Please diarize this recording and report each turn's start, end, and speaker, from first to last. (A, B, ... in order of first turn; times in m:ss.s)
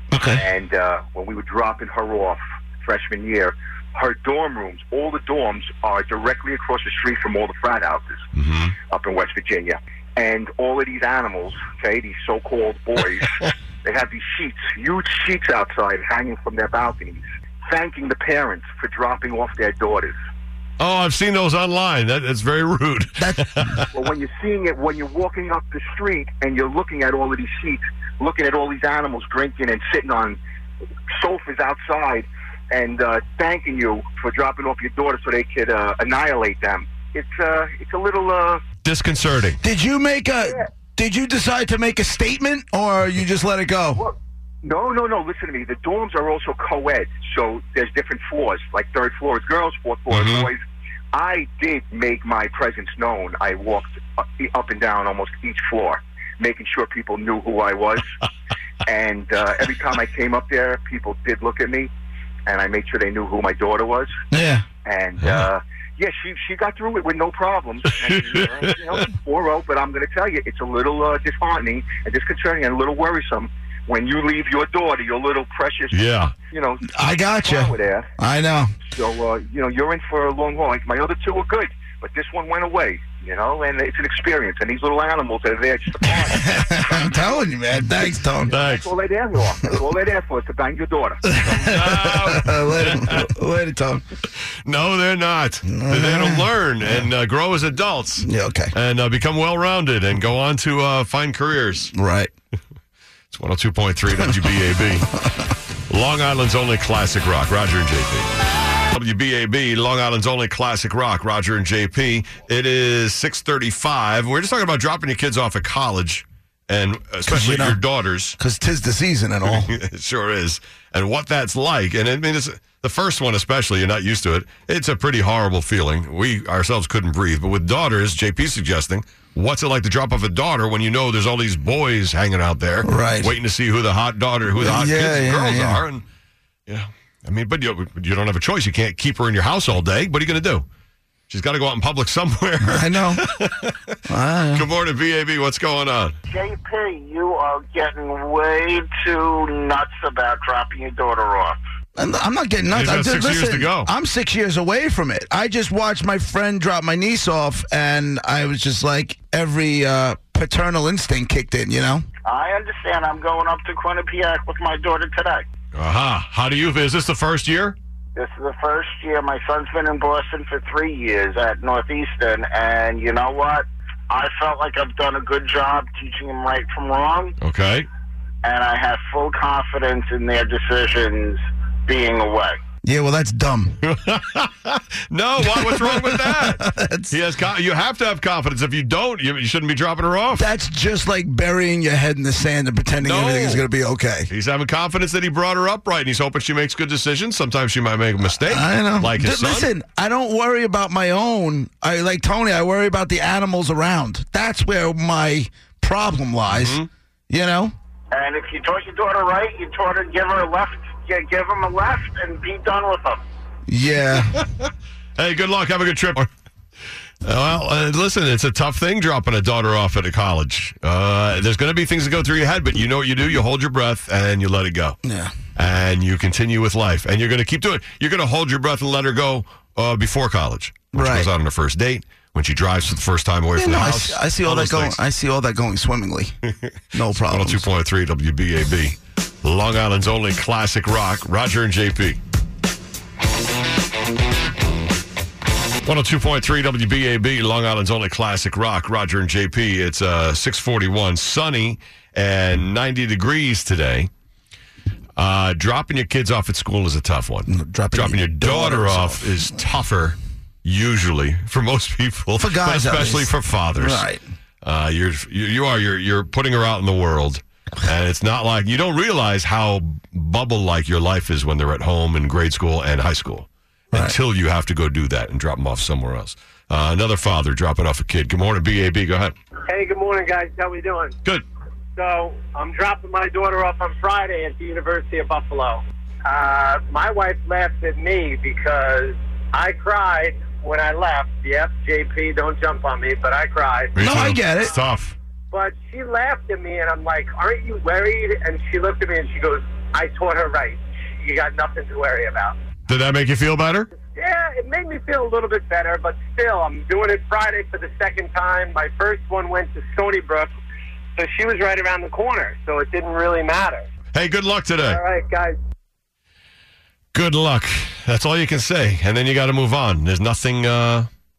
0:00.1-0:00.4 A
0:00.3-0:08.2 B
0:08.3-0:08.8 C
0:08.9-0:20.2 B
0:20.8-0:23.9 C
0:23.2-0:23.5 A
0:23.9-0:30.4 B
0:31.2-0:38.6 B
0:38.8-0:39.6 C
0:39.6-0:44.0 A
0:44.0-0:50.6 B
0:50.1-0:50.5 C
0:51.1-0:58.1 B
0:58.8-1:01.9 B
1:02.5-1:04.1 B
1:04.3-1:04.7 A
1:04.8-1:16.0 B
1:05.2-1:05.5 C
1:08.0-1:09.0 C
1:15.9-1:16.3 C
1:16.5-1:18.1 B
1:16.9-1:18.8 A
1:18.9-1:26.8 B
1:26.3-1:28.5 A
1:28.5-1:31.2 B
1:28.5-1:28.9 C
1:31.3-1:34.0 A
1:31.4-1:33.3 C
1:34.6-1:41.9 C
1:35.6-1:37.1 A
1:38.2-1:38.7 A
1:41.9-1:42.3 A
1:43.3-1:45.2 C
1:45.9-1:48.3 C
1:48.9-1:58.4 C
1:57.2-1:57.8 A
1:58.4-1:59.7 A
1:59.4-2:16.0 C
2:12.8-2:13.4 A
2:14.6-2:15.9 A
2:16.7-2:20.7 C
2:21.3-2:24.0 C
2:22.6-2:23.2 A
2:24.1-2:24.7 A
2:24.5-2:26.2 C
2:26.3-2:31.6 D
2:32.0-2:42.1 A
2:32.7-2:33.9 C
2:42.2-2:45.5 D
2:45.7-2:47.8 C
2:48.2-2:57.4 D
2:57.4-2:57.9 C
2:58.4-3:02.6 D
3:02.8-3:03.8 A
3:03.8-3:10.5 C
3:05.4-3:07.2 A
3:10.3-3:14.3 A
3:13.0-3:13.7 C
3:14.3-3:19.7 C
3:18.4-3:27.7 A
3:26.5-3:26.9 C
3:28.1-3:33.2 D
3:33.7-3:34.3 A
3:34.3-3:36.3 C
3:37.2-3:45.0 C
3:45.0-3:45.3 A
3:45.6-3:55.0 C
3:50.9-3:51.3 A
3:53.6-3:56.3 A
3:56.5-4:02.2 C
3:56.9-3:57.7 A
4:05.8-4:14.1 C
4:15.2-4:24.1 C
4:17.5-4:19.5 A
4:22.4-4:24.2 A
4:24.6-4:39.3 C
4:39.7-4:41.2 E
4:42.0-4:54.0 E
4:53.9-4:55.2 C
4:54.0-4:54.7 A
4:55.5-5:02.6 E
5:02.9-5:03.9 C
5:04.0-5:10.5 E
5:11.2-5:13.9 E
5:14.1-5:15.0 C
5:14.8-5:15.6 E
5:17.1-5:21.1 C